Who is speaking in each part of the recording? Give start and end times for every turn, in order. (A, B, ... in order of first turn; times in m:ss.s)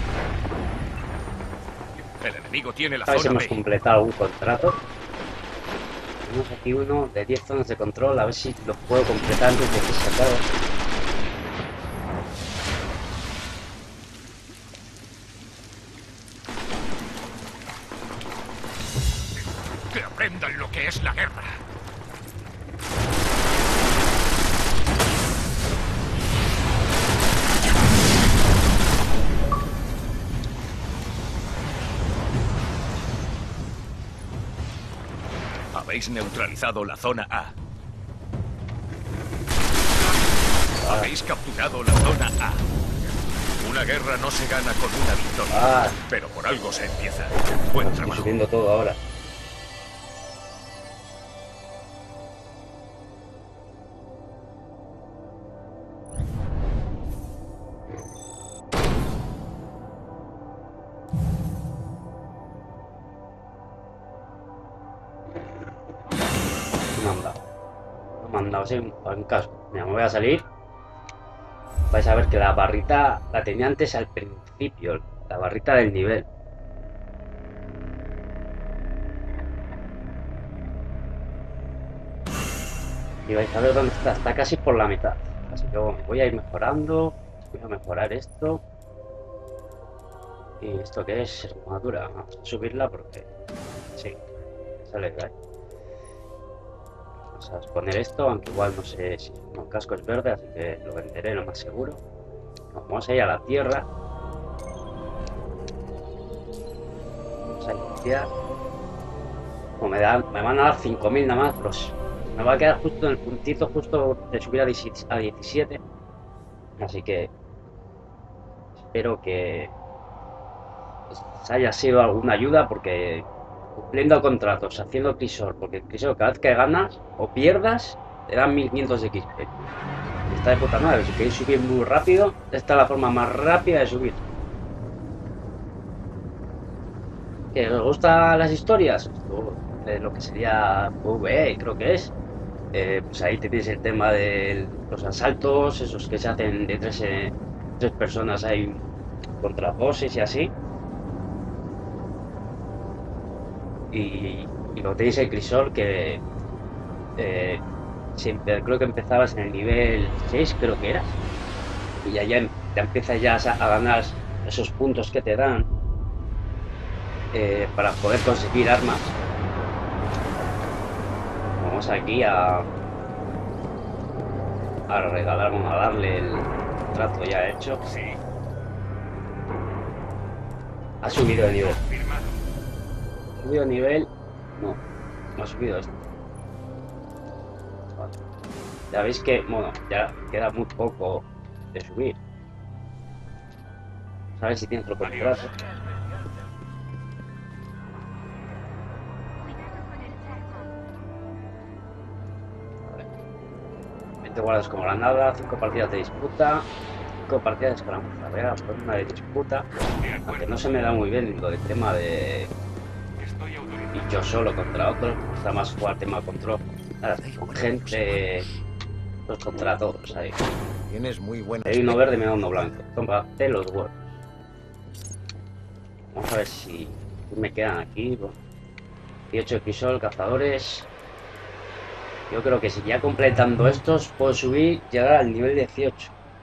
0:02.2-0:03.6 A
0:03.1-0:04.8 B
0:06.2-0:10.5 B
0:19.9-0:21.6 A
0:35.7-0:37.6 A
0:40.8-0:41.1 B
0:40.8-0:42.6 A
0:43.6-0:48.4 A
0:45.5-0:46.0 B
0:47.8-0:49.0 B
1:07.0-1:07.4 B
1:08.2-1:10.4 B
1:11.9-1:16.3 B
1:23.3-1:28.6 B
1:30.6-1:33.3 B
1:34.9-1:35.3 B
1:37.4-1:42.0 B
1:42.7-1:43.9 B
1:47.6-1:48.3 B
1:49.8-1:55.8 B
1:56.8-1:57.3 B
1:58.8-1:59.7 B
2:01.1-2:09.5 B
2:10.3-2:14.2 B
2:17.5-2:22.1 B
2:22.7-2:28.8 B
2:29.4-2:30.5 B
2:33.9-2:36.2 B
2:37.2-2:37.6 B
2:38.2-2:41.1 B
2:42.0-2:45.7 B
2:47.3-2:49.1 B
2:51.6-2:52.7 B
2:54.9-2:57.8 B
3:01.0-3:01.8 B
3:01.9-3:02.3 A
3:03.4-3:04.8 B
3:05.4-3:06.0 B
3:08.9-3:12.2 B
3:14.4-3:15.5 B
3:24.2-3:26.7 B
3:27.3-3:29.7 B
3:30.0-3:30.4 A
3:30.2-3:32.5 B
3:33.3-3:33.9 A
3:33.9-3:38.5 B
3:37.2-3:38.4 A
3:39.3-3:40.4 B
3:40.9-3:42.0 A
3:41.6-3:44.1 B
3:46.1-3:48.4 B
3:49.3-3:50.9 B
3:52.3-3:56.1 B